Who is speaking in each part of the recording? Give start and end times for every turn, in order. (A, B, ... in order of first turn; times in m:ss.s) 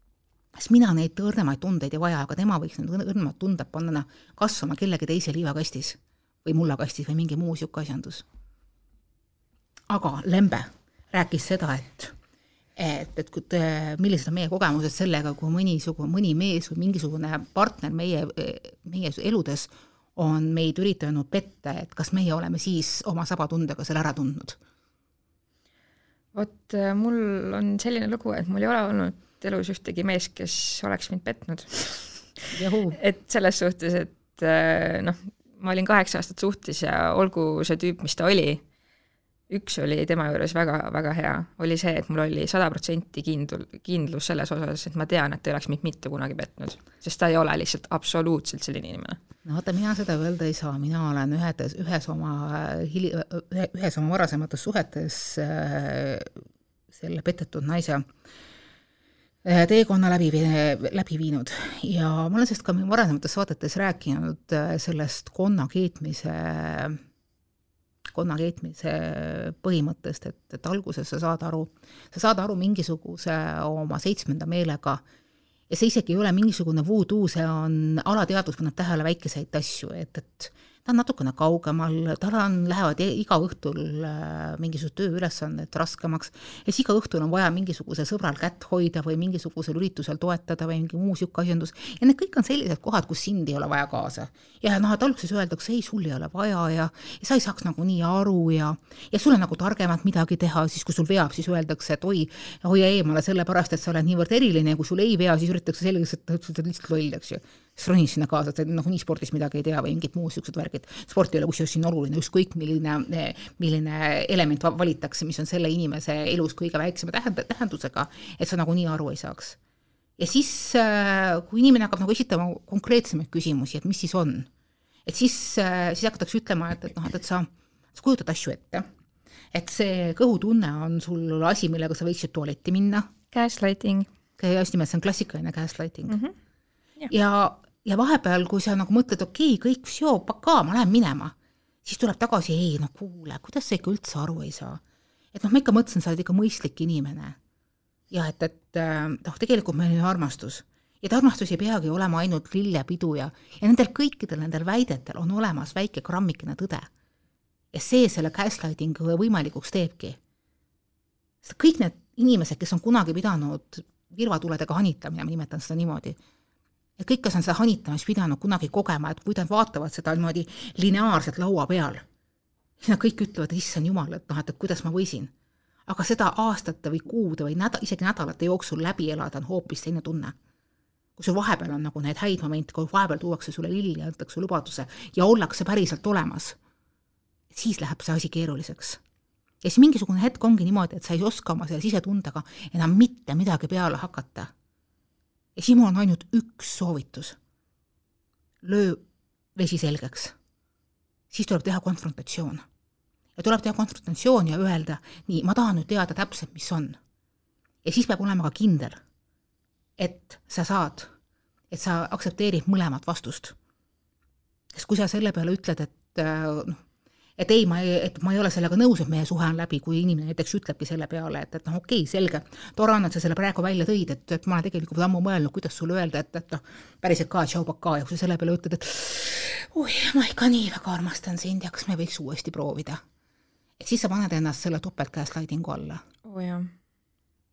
0:00.5-0:08.2 A
0:09.9-0:12.1 A
0:12.8-0:24.6 A
0:26.3-0:38.6 B
0:32.5-0:33.0 A
0:39.5-0:49.2 B
0:49.4-0:56.3 A
0:56.9-0:58.0 A
0:59.4-1:07.0 A
1:08.1-1:15.0 A
1:15.7-1:59.6 A
2:00.2-2:04.5 A
2:05.0-2:08.8 A
2:09.5-2:13.1 A
2:13.3-2:14.1 B
2:14.4-2:16.2 A
2:16.1-2:16.3 B
2:17.1-2:24.8 A
2:25.3-2:27.4 A
2:28.1-2:36.9 A
2:37.7-2:40.2 A
2:41.4-2:46.2 A
2:47.0-2:52.0 A
2:52.8-2:55.3 A
2:55.9-3:00.3 A
3:01.2-3:06.6 A
3:07.5-3:09.0 A
3:09.6-3:14.5 A
3:15.6-3:17.4 A
3:18.6-3:19.0 A
3:19.6-3:20.3 A
3:21.3-3:22.6 A
3:23.4-3:27.0 A
3:27.8-3:29.0 A
3:30.0-3:31.1 A
3:31.7-3:33.5 A
3:34.7-3:36.8 A
3:37.4-3:53.0 A
3:53.8-3:56.0 A
3:56.2-3:56.7 B